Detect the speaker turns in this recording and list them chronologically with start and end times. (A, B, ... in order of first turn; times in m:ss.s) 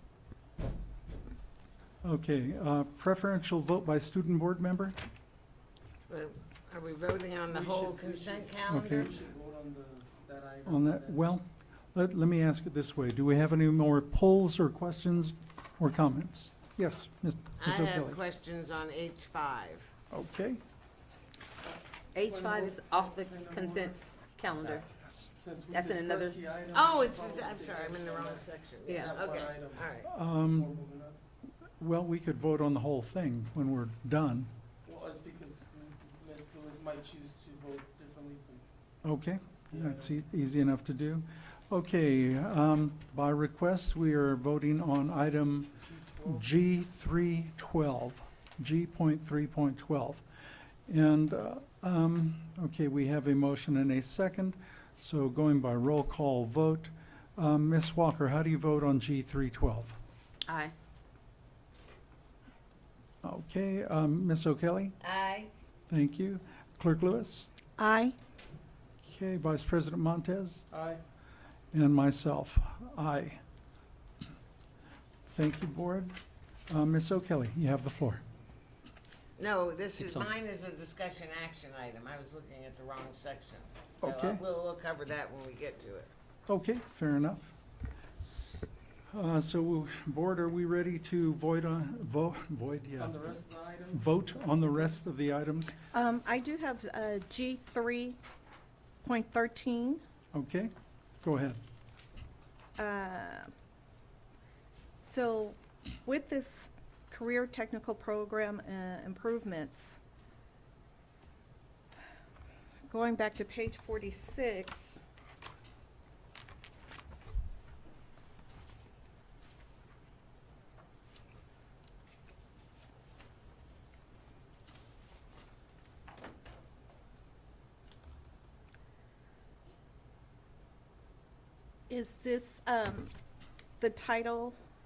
0:02.0-0:05.0 A
0:06.1-0:09.1 B
0:07.5-0:11.2 C
0:08.7-0:09.1 A
0:10.7-0:18.2 A
0:17.6-0:19.9 B
0:20.1-0:20.6 A
0:21.7-0:24.0 C
0:22.1-0:24.8 D
0:24.9-0:25.3 A
0:25.4-0:31.2 C
0:25.7-0:26.4 D
0:26.7-0:30.1 B
0:28.9-0:29.1 D
0:30.0-0:30.7 A
0:31.8-0:34.5 A
0:34.8-0:38.7 C
0:39.0-0:50.2 A
0:39.7-0:40.1 C
0:46.1-0:46.4 C
0:50.9-1:00.0 A
1:00.5-1:00.7 D
1:03.2-1:05.0 A
1:05.0-1:05.5 B
1:05.9-1:07.5 A
1:07.8-1:08.2 E
1:09.0-1:10.6 A
1:10.7-1:11.0 C
1:11.7-1:13.4 A
1:15.3-1:16.2 A
1:16.7-1:18.2 A
1:19.4-1:26.1 B
1:24.0-1:24.4 A
1:26.5-1:27.5 A
1:29.1-1:33.3 A
1:33.0-1:34.9 C
1:33.9-1:35.8 A
1:35.9-1:38.2 E
1:39.0-1:40.0 E
1:40.3-1:41.6 A
1:42.8-1:43.5 E
1:44.9-1:50.0 E
1:52.9-1:55.0 E
2:11.9-2:13.1 E
2:13.8-2:14.6 E